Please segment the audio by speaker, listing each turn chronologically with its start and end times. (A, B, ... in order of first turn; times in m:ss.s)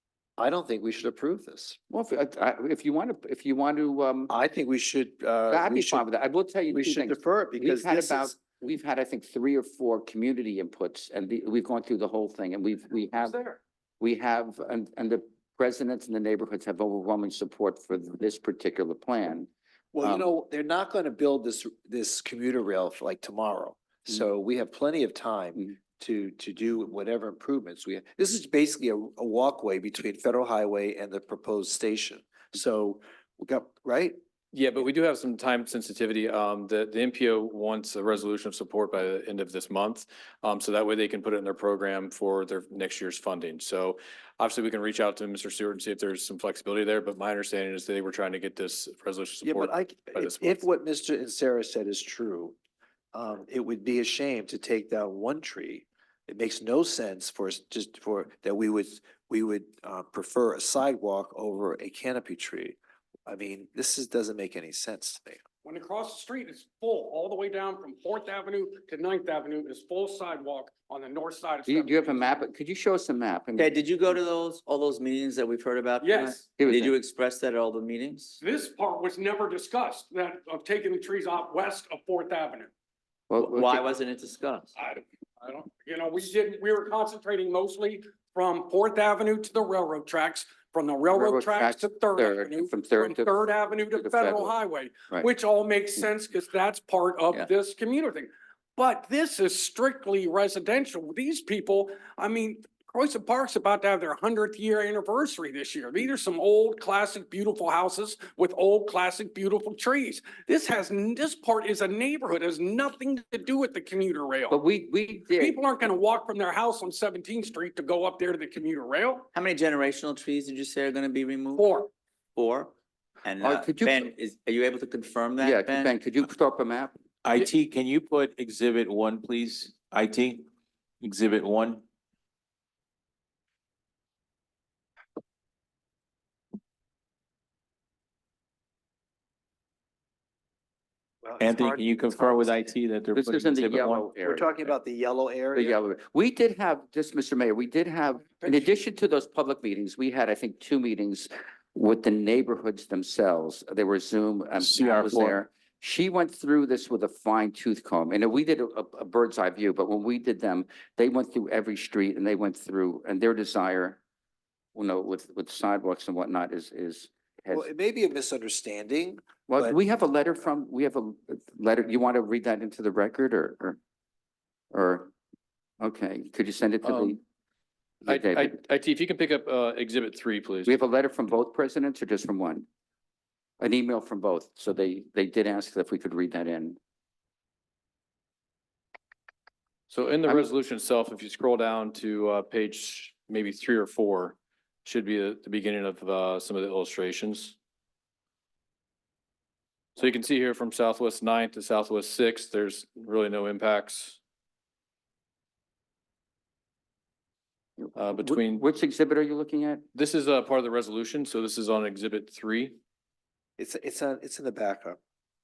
0:00.4-0:01.8 A
0:01.9-0:04.3 B
0:04.3-0:06.1 A
0:05.5-0:13.4 B
0:06.7-0:08.4 A
0:14.0-0:19.5 B
0:19.9-0:34.2 A
0:20.0-0:20.3 B
0:34.5-0:50.6 C
0:49.4-0:52.6 A
0:53.1-1:05.4 A
1:05.6-1:11.9 D
1:11.6-1:13.7 B
1:13.6-1:18.4 E
1:16.0-1:16.4 D
1:16.6-1:17.0 B
1:18.4-1:22.7 D
1:23.3-1:23.8 B
1:23.4-1:24.8 E
1:25.4-1:38.2 D
1:31.1-1:33.4 B
1:33.9-1:34.6 B
1:38.8-1:54.5 D
1:54.5-1:55.6 B
1:55.4-1:59.2 D
1:59.3-2:01.7 E
2:01.6-2:01.8 D
2:02.4-2:05.9 E
2:03.4-2:04.1 B
2:05.4-2:06.9 B
2:07.2-2:10.5 F
2:11.0-2:11.8 F
2:21.2-2:22.5 A
2:21.4-2:24.1 F
2:23.1-2:24.6 B
2:24.2-2:25.8 A
2:25.5-2:44.0 B
2:34.6-2:35.4 F
2:44.7-2:47.7 B
2:47.5-2:49.8 A
2:49.5-2:53.8 B
2:54.7-2:55.1 B
2:55.8-2:57.2 B
2:56.8-2:57.2 C
2:58.0-2:58.6 B
2:58.1-3:00.7 C
3:00.6-3:02.6 B
3:03.6-3:06.8 B
3:09.9-3:17.6 C
3:20.0-3:24.2 C
3:28.0-3:28.6 C
3:28.1-3:29.8 B
3:29.9-3:32.8 C
3:33.6-3:35.0 A